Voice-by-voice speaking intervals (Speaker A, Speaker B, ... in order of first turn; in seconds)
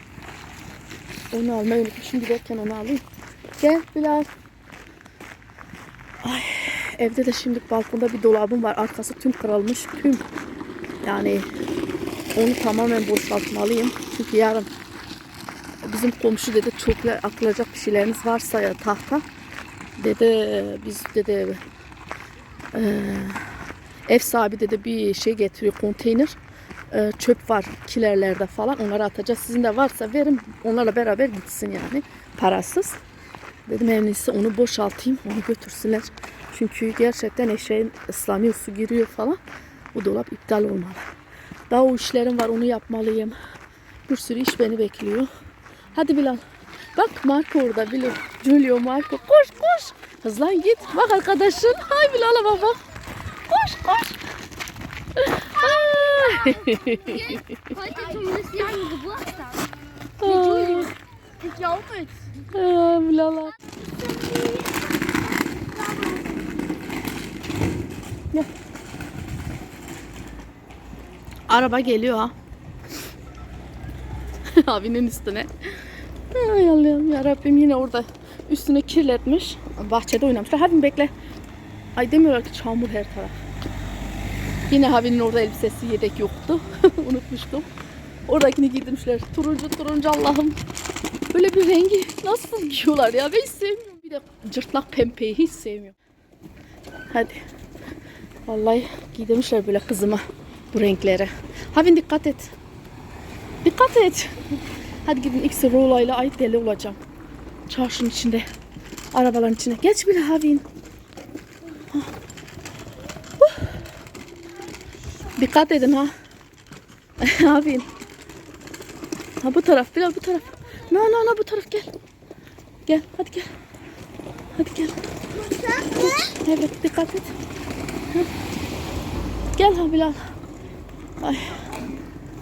Speaker A: 1.3-3.0, 3.6-4.3, 6.2-10.3, 11.0-11.5, 12.3-14.7, 15.8-19.2, 20.0-21.6, 22.7-23.5, 24.1-26.4, 26.9-33.0, 33.7-39.4, 39.9-41.0, 41.7-43.3, 44.1-45.3, 45.9-46.4, 46.9-52.8, 53.4-54.2, 55.2-57.6, 60.2-60.9, 62.4-63.6, 71.5-72.3, 74.5-75.5, 76.3-81.1, 81.9-83.4, 84.7-87.7, 88.2-90.6, 91.3-96.0, 97.1-97.4, 98.5-102.5, 103.6-107.0, 107.7-108.4, 109.1-110.6, 113.4-113.7, 115.3-116.1, 117.2-117.9, 119.4-121.9, 122.9-123.5, 124.5-125.0, 125.7-127.3, 129.5-130.3, 131.2-131.7
Speaker B: 56.5-59.7, 60.3-62.3, 63.6-66.6